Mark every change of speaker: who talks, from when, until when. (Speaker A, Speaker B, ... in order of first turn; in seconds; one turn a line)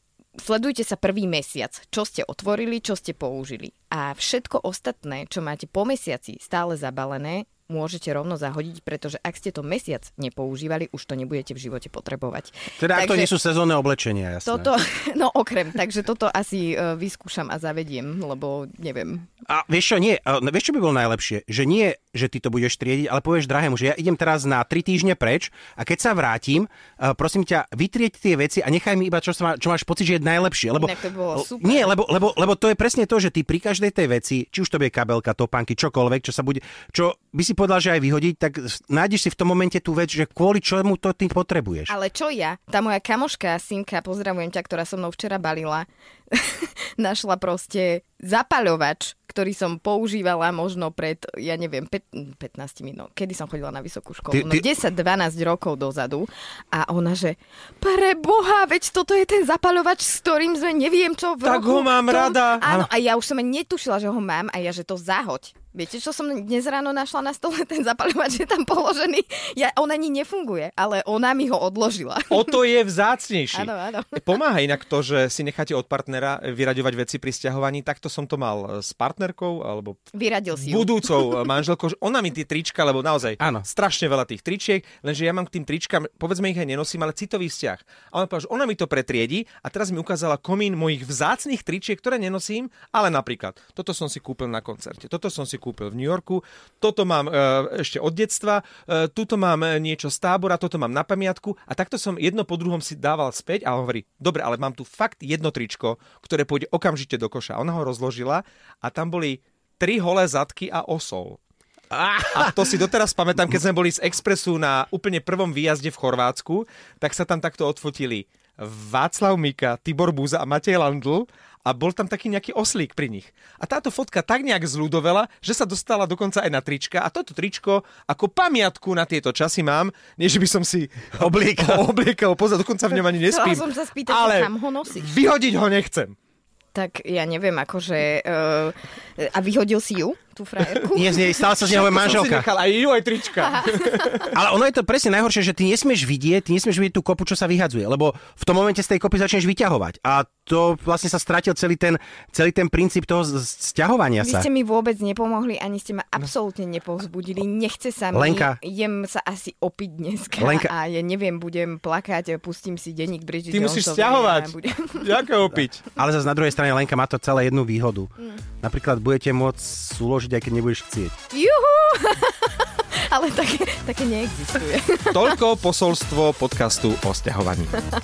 Speaker A: 0.4-13.3
Speaker B: 12.8-14.7
Speaker A: 14.4-19.3
Speaker B: 19.5-41.9
Speaker A: 30.8-31.9
Speaker A: 41.9-72.5
Speaker B: 54.3-54.6
Speaker C: 61.4-62.7
Speaker B: 62.6-62.9
Speaker C: 72.3-80.0
Speaker A: 73.5-74.2
Speaker A: 80.1-81.2
Speaker C: 80.6-111.4
Speaker B: 83.4-83.7
Speaker B: 111.9-112.5
Speaker C: 112.2-136.2
Speaker B: 131.2-131.8
Speaker A: 133.3-135.1
Speaker A: 136.7-141.3
Speaker B: 140.9-142.5
Speaker C: 141.6-144.4
Speaker A: 143.8-144.2
Speaker B: 144.3-154.5
Speaker A: 154.2-165.2
Speaker B: 158.1-158.6
Speaker B: 160.4-160.7
Speaker C: 163.5-165.9
Speaker B: 165.9-171.1
Speaker A: 171.3-175.4
Speaker C: 175.1-177.8